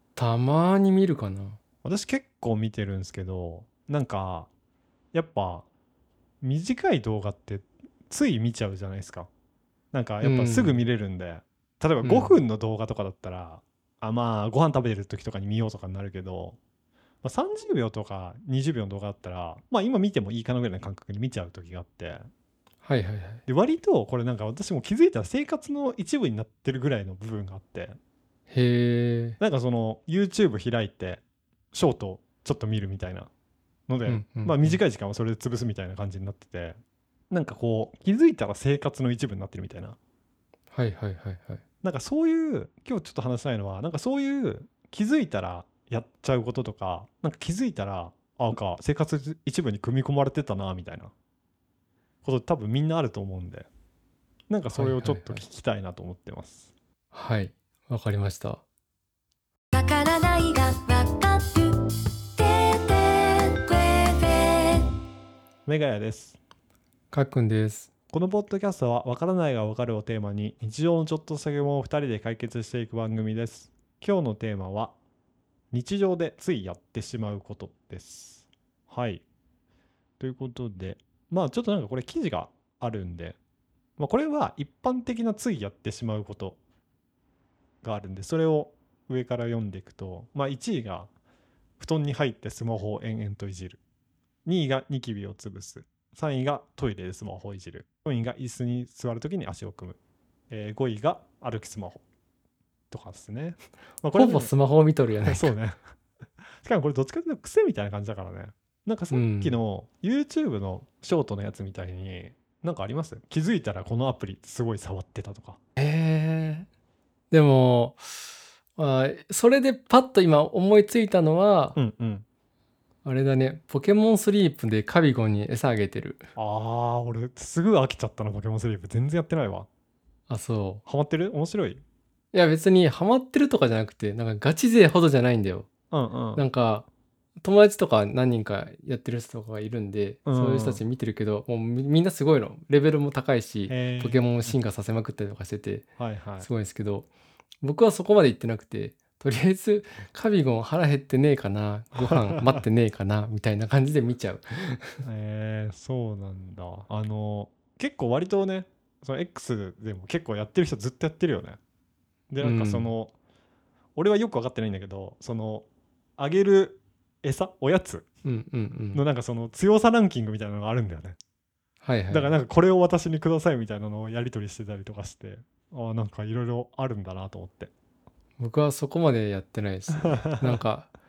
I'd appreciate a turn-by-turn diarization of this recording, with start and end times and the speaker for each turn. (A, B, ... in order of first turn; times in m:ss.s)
0:00.2-0:01.6 A
0:01.8-0:04.5 B
0:05.1-0:05.7 B
0:06.4-0:09.3 B
0:09.9-0:16.6 B
0:10.2-0:10.8 A
0:12.0-0:12.4 A
0:17.2-0:22.2 B
0:22.8-0:23.4 A
0:23.5-0:28.0 B
0:28.5-0:29.4 A
0:29.4-0:31.2 B
0:31.7-0:33.3 B
0:33.9-0:36.8 B
0:34.0-0:34.8 A
0:37.3-0:40.0 B
0:40.7-0:41.6 A
0:41.8-0:51.1 B
0:52.2-0:53.7 B
0:54.5-0:56.7 B
0:54.7-0:55.4 A
0:57.1-0:58.6 A
0:59.7-1:04.9 C
1:05.6-1:06.4 B
1:07.1-1:07.9 A
1:08.1-1:14.9 B
1:15.7-1:19.2 B
1:20.2-1:23.4 B
1:24.0-1:26.6 B
1:27.8-1:31.1 B
1:31.8-1:33.8 B
1:34.4-1:40.0 B
1:40.5-1:42.0 B
1:42.9-1:44.5 B
1:44.1-1:45.5 A
1:45.2-1:45.8 B
1:46.6-1:55.6 B
1:49.1-1:49.6 A
1:55.8-1:56.7 A
1:57.3-2:01.8 A
2:01.8-2:02.2 B
2:03.0-2:06.3 A
2:06.4-2:09.7 B
2:10.3-2:10.8 A
2:10.8-2:11.8 B
2:12.3-2:15.7 A
2:15.9-2:16.4 B
2:16.4-2:16.8 A
2:17.4-2:25.9 A
2:20.2-2:20.8 B
2:23.7-2:24.6 B
2:26.0-2:26.5 B
2:26.4-2:27.1 A
2:27.6-2:35.0 A
2:35.0-2:41.6 B
2:42.3-2:43.1 B
2:42.4-2:42.9 A
2:44.0-2:45.6 B
2:46.2-2:48.0 B
2:48.2-2:49.0 A
2:48.9-2:51.2 B
2:51.8-2:52.4 A
2:52.1-2:57.7 B
2:58.4-3:00.9 A
3:00.0-3:00.5 B